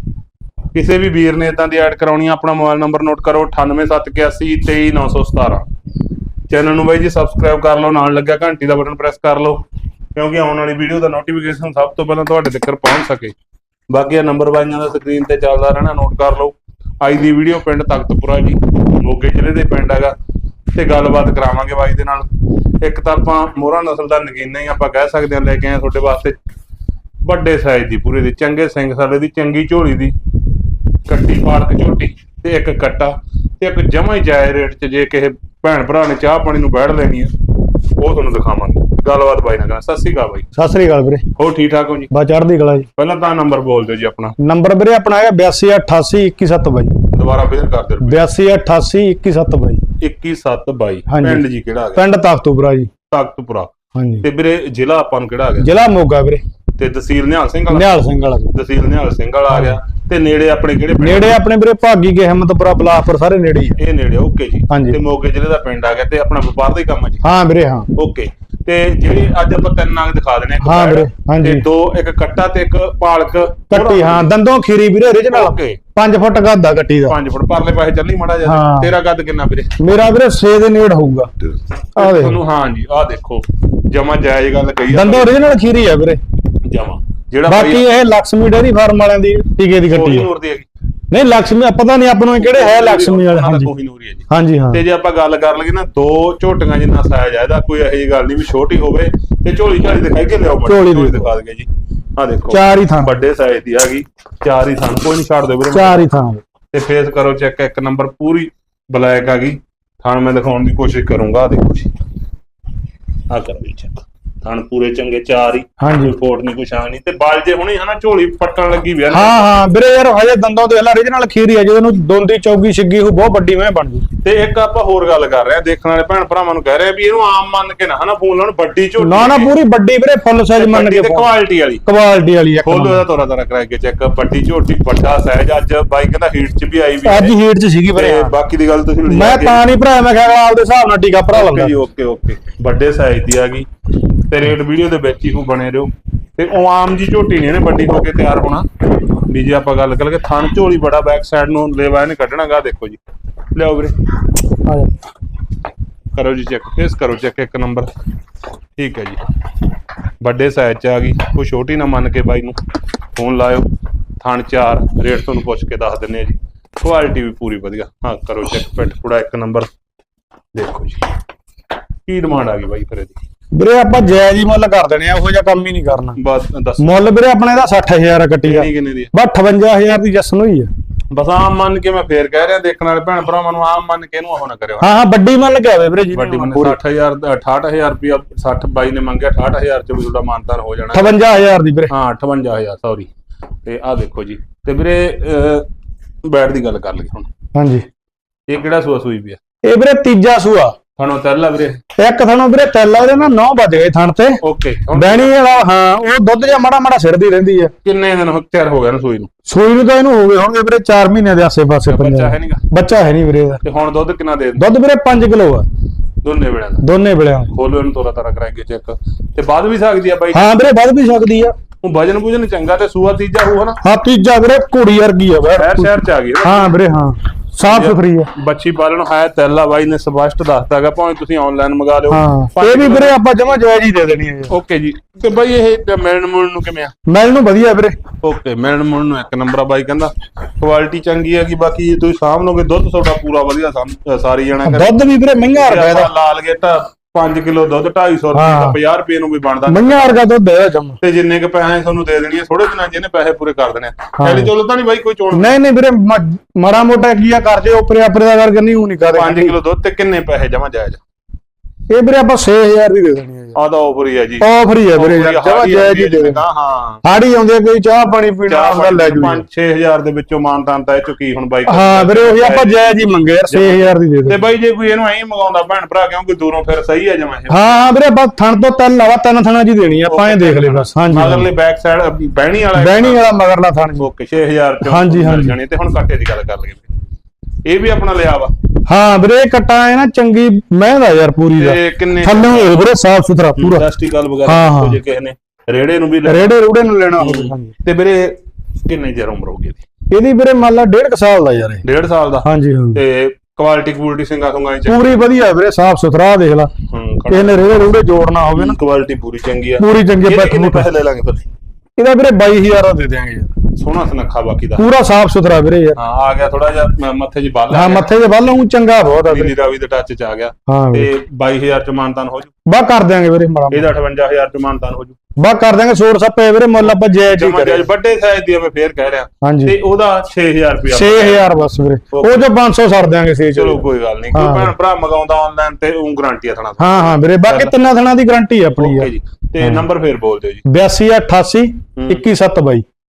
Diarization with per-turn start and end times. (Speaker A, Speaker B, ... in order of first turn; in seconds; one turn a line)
Speaker A: 0.7-5.7
Speaker A: 6.5-9.6
Speaker A: 10.2-13.3
Speaker A: 13.9-20.1
Speaker A: 20.8-22.3
Speaker A: 22.8-26.4
Speaker A: 27.2-30.1
Speaker A: 31.1-37.3
Speaker A: 38.0-40.5
Speaker B: 40.5-41.3
Speaker A: 41.4-42.1
Speaker B: 42.1-42.9
Speaker A: 43.0-44.4
Speaker B: 44.4-47.0
Speaker A: 47.1-48.2
Speaker B: 48.0-49.8
Speaker A: 50.0-52.0
Speaker B: 51.1-52.9
Speaker A: 53.1-53.7
Speaker B: 54.0-54.2
Speaker A: 54.2-55.7
Speaker B: 55.6-56.4
Speaker A: 56.8-61.4
Speaker B: 57.7-58.6
Speaker B: 59.5-59.8
Speaker B: 61.0-63.8
Speaker A: 63.8-67.2
Speaker B: 64.7-65.0
Speaker B: 67.2-67.9
Speaker A: 68.0-74.3
Speaker B: 70.6-71.6
Speaker B: 73.7-77.2
Speaker A: 75.2-75.8
Speaker A: 77.1-79.7
Speaker B: 78.4-78.9
Speaker B: 79.8-81.3
Speaker B: 82.0-82.4
Speaker A: 82.0-85.5
Speaker B: 84.9-86.2
Speaker A: 86.6-87.8
Speaker B: 87.5-90.3
Speaker A: 89.9-90.7
Speaker B: 91.1-93.7
Speaker A: 92.3-106.0
Speaker B: 94.3-94.8
Speaker B: 100.7-101.3
Speaker B: 102.5-103.1
Speaker B: 105.7-106.4
Speaker A: 106.7-111.9
Speaker A: 113.3-119.5
Speaker B: 115.8-116.2
Speaker B: 119.1-124.0
Speaker A: 124.2-129.5
Speaker B: 129.0-131.3
Speaker A: 130.6-131.8
Speaker B: 131.9-133.0
Speaker A: 132.6-137.3
Speaker B: 137.0-138.3
Speaker A: 137.9-139.6
Speaker B: 139.1-141.8
Speaker A: 141.3-143.7
Speaker A: 144.3-153.0
Speaker A: 153.6-153.9
Speaker B: 154.7-154.9
Speaker A: 156.1-157.9
Speaker A: 158.8-159.2
Speaker A: 160.2-162.6
Speaker A: 163.2-163.7
Speaker A: 164.2-169.7
Speaker A: 170.5-171.1
Speaker A: 172.1-173.2
Speaker B: 173.6-176.2
Speaker A: 176.2-177.0
Speaker B: 176.8-180.7
Speaker A: 178.4-179.1
Speaker A: 181.1-184.9
Speaker B: 184.8-186.8
Speaker A: 186.1-191.2
Speaker B: 190.9-191.9
Speaker A: 191.9-193.1
Speaker A: 193.7-195.7
Speaker A: 196.2-197.3
Speaker B: 197.6-197.8
Speaker A: 198.5-199.4
Speaker B: 199.6-200.8
Speaker A: 201.0-201.8
Speaker B: 202.0-204.4
Speaker A: 204.4-205.4
Speaker B: 204.9-207.7
Speaker A: 207.8-209.3
Speaker B: 209.5-213.6
Speaker A: 211.9-212.6
Speaker A: 213.6-214.7
Speaker B: 214.6-215.7
Speaker A: 216.2-216.8
Speaker B: 216.8-217.5
Speaker A: 217.5-220.5
Speaker B: 220.3-221.5
Speaker A: 221.8-223.8
Speaker B: 223.8-225.9
Speaker A: 225.6-226.7
Speaker B: 226.4-228.3
Speaker A: 227.6-233.2
Speaker B: 232.1-234.5
Speaker A: 234.5-236.9
Speaker B: 237.1-238.0
Speaker A: 238.2-244.9
Speaker B: 244.6-246.1
Speaker A: 245.5-250.2
Speaker B: 248.3-248.8
Speaker B: 249.7-251.0
Speaker A: 251.0-255.6
Speaker B: 254.2-254.5
Speaker B: 255.3-259.6
Speaker A: 259.1-261.0
Speaker B: 261.9-263.6
Speaker A: 263.6-267.0
Speaker B: 264.4-266.4
Speaker B: 267.0-269.4
Speaker A: 268.5-272.7
Speaker B: 271.7-274.4
Speaker A: 273.5-277.7
Speaker B: 277.5-281.5
Speaker A: 280.1-283.2
Speaker B: 282.8-284.1
Speaker A: 284.0-286.9
Speaker B: 284.9-285.6
Speaker A: 287.7-288.5
Speaker B: 288.9-293.9
Speaker A: 291.6-292.8
Speaker A: 293.6-296.6
Speaker B: 294.5-295.0
Speaker B: 296.3-297.7
Speaker A: 297.2-299.8
Speaker B: 300.1-301.8
Speaker A: 301.8-305.2
Speaker B: 302.4-303.0
Speaker B: 304.9-306.7
Speaker A: 306.9-307.8
Speaker B: 307.3-308.8
Speaker A: 308.5-311.5
Speaker B: 309.8-310.9
Speaker B: 312.0-313.5
Speaker A: 313.8-314.9
Speaker B: 314.8-316.0
Speaker A: 316.0-318.1
Speaker B: 317.7-319.6
Speaker A: 319.3-322.5
Speaker B: 320.7-321.1
Speaker B: 322.7-323.9
Speaker A: 323.7-325.2
Speaker B: 325.4-327.9
Speaker A: 326.8-331.5
Speaker B: 329.4-329.8
Speaker B: 330.9-334.7
Speaker A: 332.1-332.4
Speaker A: 333.6-337.7
Speaker B: 336.8-339.1
Speaker A: 338.8-340.6
Speaker B: 339.6-339.9
Speaker B: 340.7-342.8
Speaker A: 342.0-342.2